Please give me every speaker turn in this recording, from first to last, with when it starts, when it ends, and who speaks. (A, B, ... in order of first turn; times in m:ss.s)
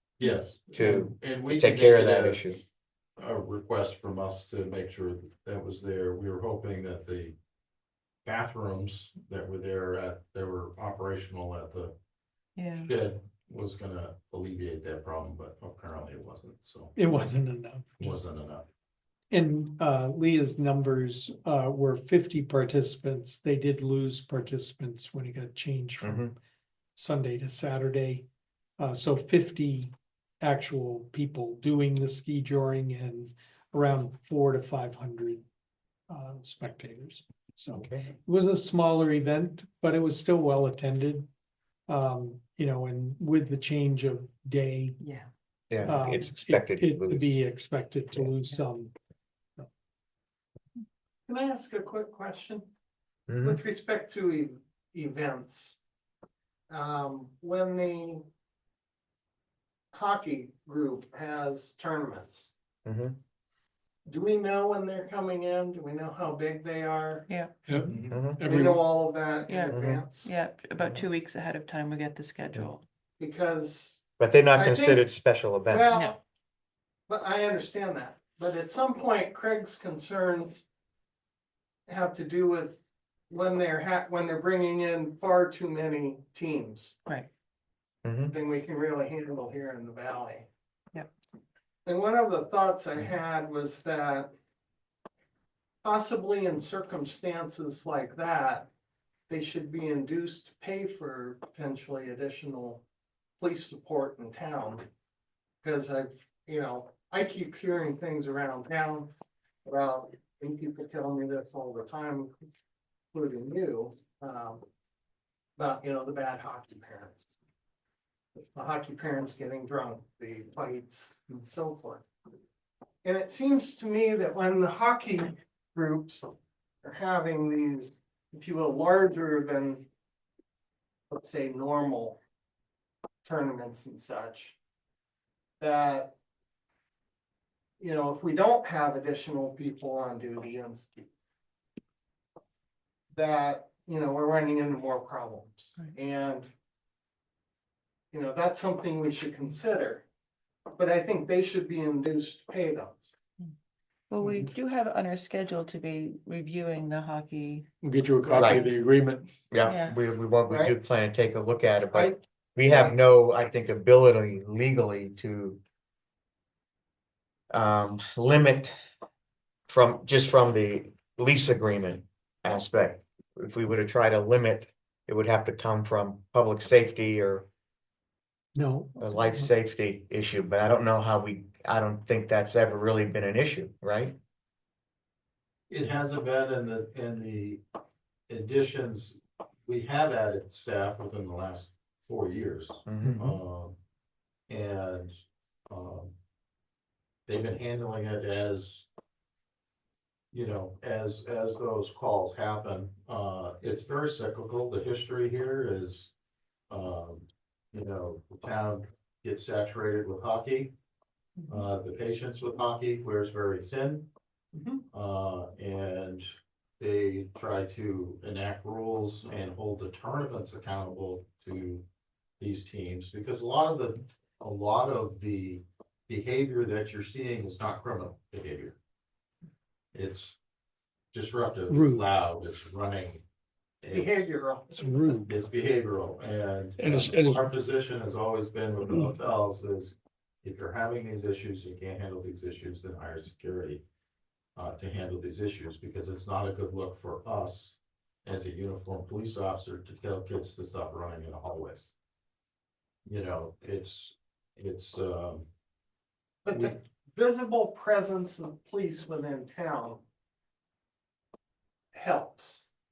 0:00.2-0:02.4 A
0:00.7-0:02.6 B
0:03.2-0:07.4 A
0:08.2-0:11.9 A
0:12.6-0:12.9 C
0:12.8-0:17.4 A
0:17.0-0:18.3 D
0:18.0-0:18.7 A
0:19.3-0:26.3 D
0:26.0-0:26.3 B
0:27.0-0:28.2 D
0:28.8-0:35.4 D
0:36.1-0:41.3 D
0:37.7-0:38.1 B
0:41.9-0:45.0 D
0:45.0-0:45.3 C
0:45.7-0:47.4 B
0:45.8-0:48.9 D
0:51.3-0:52.7 E
0:53.3-0:53.6 B
0:53.4-0:55.8 E
0:56.7-0:58.2 E
0:59.9-1:02.5 E
1:02.8-1:03.2 B
1:04.0-1:07.2 E
1:07.3-1:07.7 C
1:07.7-1:08.8 F
1:07.8-1:08.2 A
1:08.1-1:08.4 B
1:08.4-1:10.3 E
1:09.4-1:12.8 C
1:09.7-1:10.0 B
1:13.2-1:14.0 E
1:14.2-1:15.9 B
1:14.5-1:15.0 E
1:15.7-1:16.2 E
1:17.1-1:20.6 E
1:21.9-1:27.0 E
1:28.0-1:28.3 B
1:28.3-1:30.5 E
1:31.8-1:34.3 E
1:35.8-1:38.7 E
1:39.3-1:42.8 E
1:43.4-1:44.9 E
1:45.6-1:49.1 E
1:49.6-1:52.3 E
1:53.1-1:54.6 E
1:55.6-1:57.3 E
1:58.3-2:02.0 E
2:03.0-2:09.8 E
2:11.1-2:12.2 E
2:13.2-2:14.6 E
2:15.6-2:16.1 E
2:17.8-2:21.1 E
2:23.1-2:26.5 E
2:28.1-2:30.0 E
2:30.7-2:33.1 E
2:34.1-2:37.7 C
2:37.8-2:39.3 F
2:38.3-2:38.7 B
2:39.5-2:45.6 B
2:39.6-2:40.0 C
2:40.5-2:40.7 E
2:41.9-2:43.0 E
2:47.5-2:48.7 B
2:49.7-2:57.4 B
2:58.5-2:59.5 D
2:59.0-3:04.2 B
3:05.7-3:07.6 A
3:08.3-3:13.8 A
3:12.8-3:13.4 B
3:14.5-3:15.2 A
3:15.7-3:16.1 A
3:17.3-3:18.9 A
3:20.3-3:26.1 A
3:26.7-3:30.7 A
3:31.5-3:34.1 A
3:34.5-3:34.8 E
3:34.9-3:41.8 A
3:42.4-3:48.8 A
3:49.9-3:50.4 A
3:51.1-3:53.2 A
3:51.7-3:52.1 D
3:53.8-3:54.3 A
3:53.9-3:55.1 E
3:55.0-4:03.8 A
3:56.8-3:57.4 F
4:04.6-4:11.9 A
4:13.0-4:15.5 A
4:16.4-4:20.0 E
4:21.9-4:22.6 E